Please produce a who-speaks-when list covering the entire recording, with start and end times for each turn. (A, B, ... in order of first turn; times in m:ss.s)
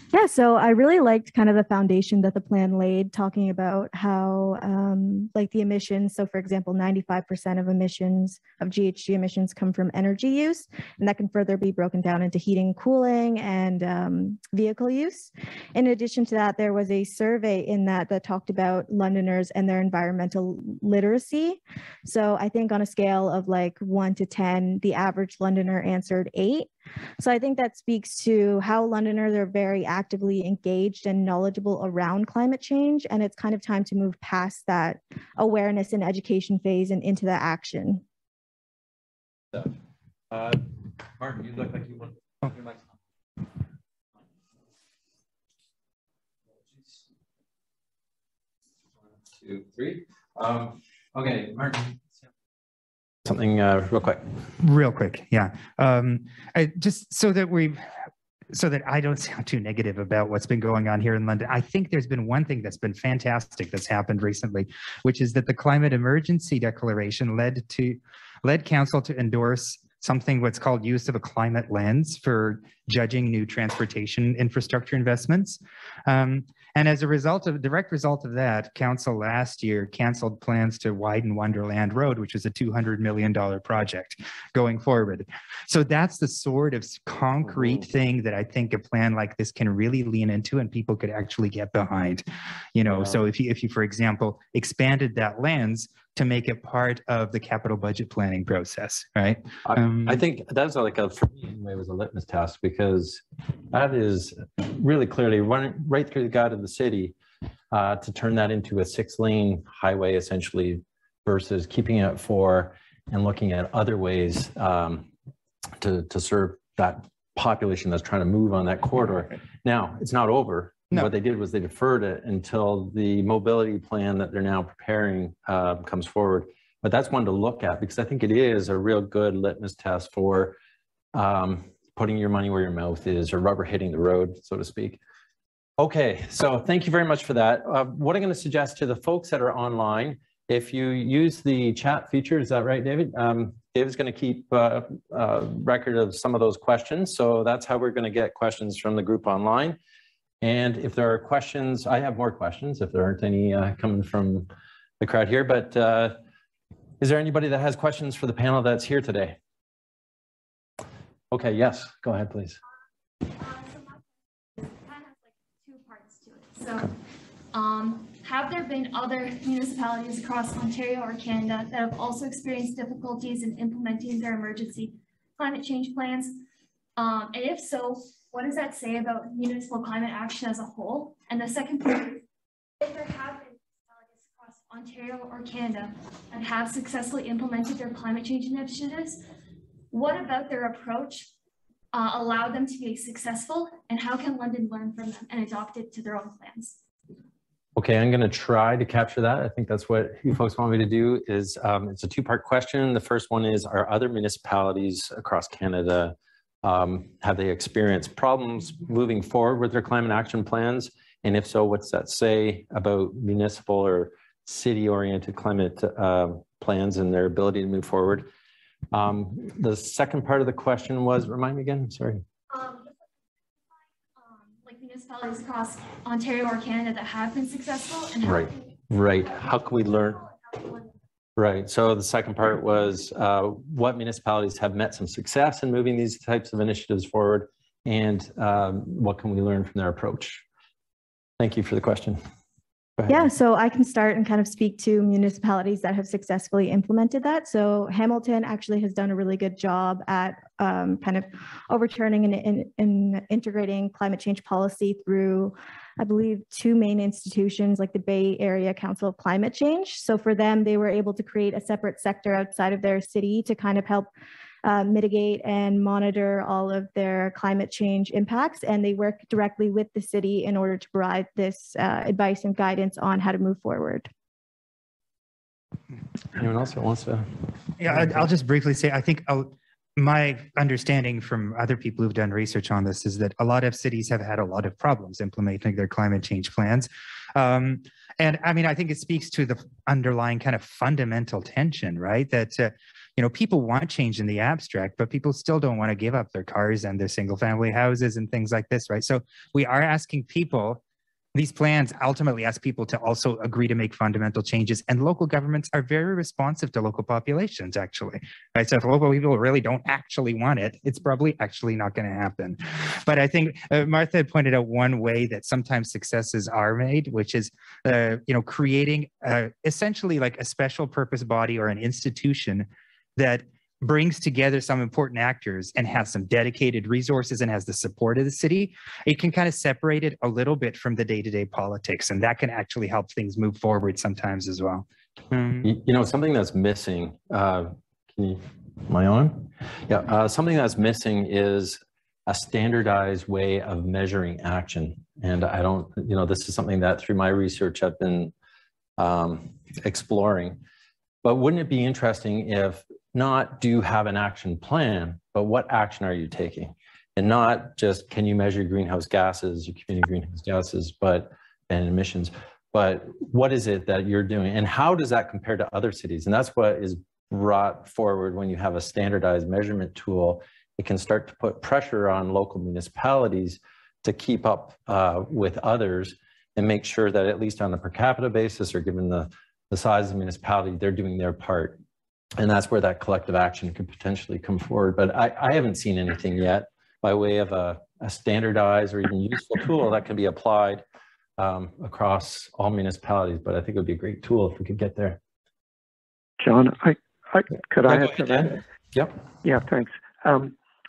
0:00.1-0:38.0 A
0:40.3-0:40.6 B
0:41.2-0:42.1 B
0:49.3-0:52.2 B
0:53.2-0:54.2 B
0:54.6-0:57.9 C
0:58.5-1:40.2 C
1:27.6-1:27.8 B
1:32.9-1:33.2 B
1:39.6-1:47.1 B
1:47.7-1:55.1 B
1:55.8-2:10.6 B
2:11.1-2:15.0 B
2:15.8-2:29.8 B
2:30.4-2:34.5 B
2:35.0-2:36.2 B
2:37.0-2:39.4 B
2:41.3-2:42.6 B
2:43.4-2:46.9 D
2:47.5-2:56.4 D
2:57.0-3:02.2 D
3:02.8-3:09.2 D
3:09.9-3:11.3 D
3:11.9-3:16.8 D
3:17.8-3:38.3 B
3:38.9-3:42.2 B
3:42.5-3:43.0 D
3:44.2-3:48.8 D
3:48.2-3:50.2 B
3:50.0-3:50.9 D
3:51.4-4:00.4 B
4:01.4-4:02.2 B
4:03.0-4:03.3 B
4:03.1-4:24.1 A
4:24.6-4:34.1 A
4:36.4-4:37.3 B
4:37.8-5:00.8 C
4:37.9-4:38.2 B
5:01.4-5:35.7 C
5:35.6-5:48.3 B
5:49.0-5:50.6 B
5:51.2-6:21.8 B
6:22.4-6:30.8 B
6:31.4-6:35.2 B
6:36.4-6:38.6 E
6:37.9-6:39.2 B
6:39.4-6:40.5 E